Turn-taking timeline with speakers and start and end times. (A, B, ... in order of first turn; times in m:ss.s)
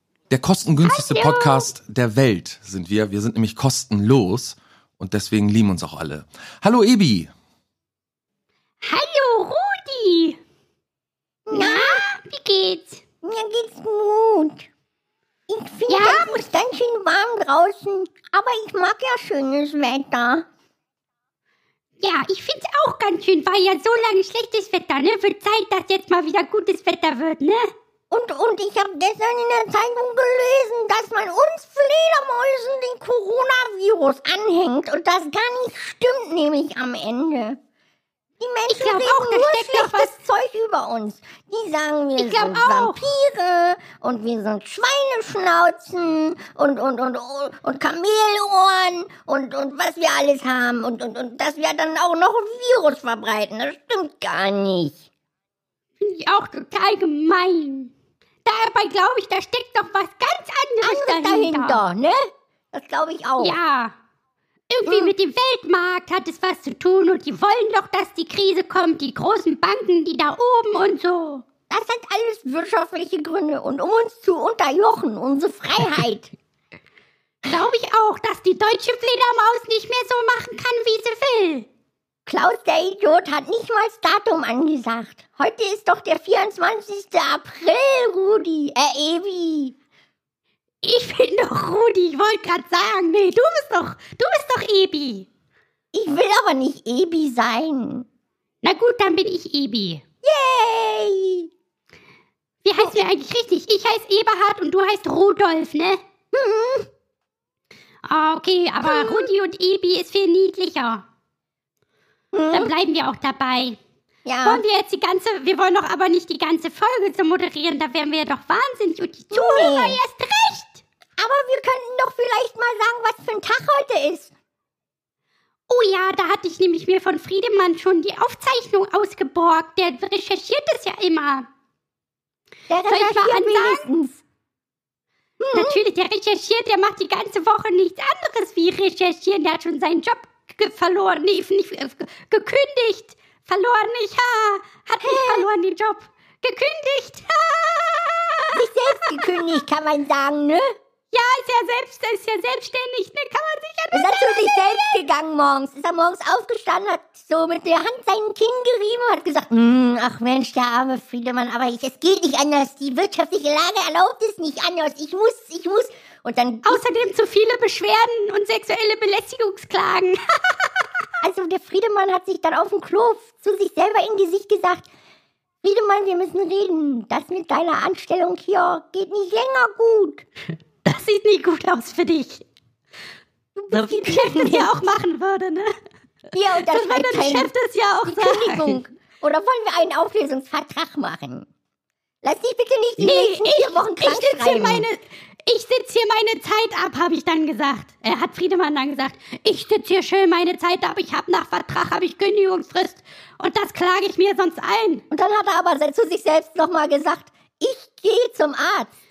0:00.3-0:07.3 A
0:00.8-0:01.7 B
0:08.8-0:10.4 B
0:11.5-0:12.0 C
0:11.5-0:13.0 B
0:13.2-0:14.7 C
0:15.5-0:20.4 C
0:15.9-0:16.4 B
0:22.0-0:27.7 B
0:28.1-0:37.6 C
0:38.4-0:55.0 C
0:38.7-0:40.1 B
0:42.2-0:43.0 B
0:56.0-0:57.9 B
0:58.4-1:01.8 B
1:00.8-1:03.6 C
1:03.4-1:03.9 B
1:04.7-1:11.4 B
1:04.8-1:05.1 C
1:11.7-1:16.3 C
1:17.4-1:21.7 B
1:22.3-1:29.7 C
1:30.8-1:35.3 B
1:35.9-1:38.0 C
1:38.6-1:40.0 B
1:40.2-1:41.5 C
1:42.6-1:46.0 B
1:46.3-1:46.9 C
1:48.0-1:51.0 B
1:48.8-1:49.3 C
1:52.3-1:52.7 C
1:52.5-1:53.8 B
1:54.2-1:54.6 C
1:54.4-2:00.8 B
1:59.3-2:00.0 C
2:01.2-2:04.3 C
2:05.7-2:11.5 B
2:12.7-2:14.2 C
2:12.9-2:13.9 B
2:15.4-2:15.8 C
2:15.5-2:29.6 B
2:25.0-2:25.5 C
2:28.5-2:30.7 C
2:31.1-2:35.0 B
2:33.9-2:46.8 C
2:46.6-2:50.7 B
2:51.2-2:54.8 C
2:55.6-3:00.2 C
3:00.8-3:02.4 B
3:03.6-3:04.7 C
3:03.7-3:05.7 B
3:06.3-3:07.5 C
3:06.7-3:08.8 B
3:08.0-3:11.5 C
3:12.2-3:14.8 C
3:13.0-3:25.0 B
3:25.1-3:29.0 C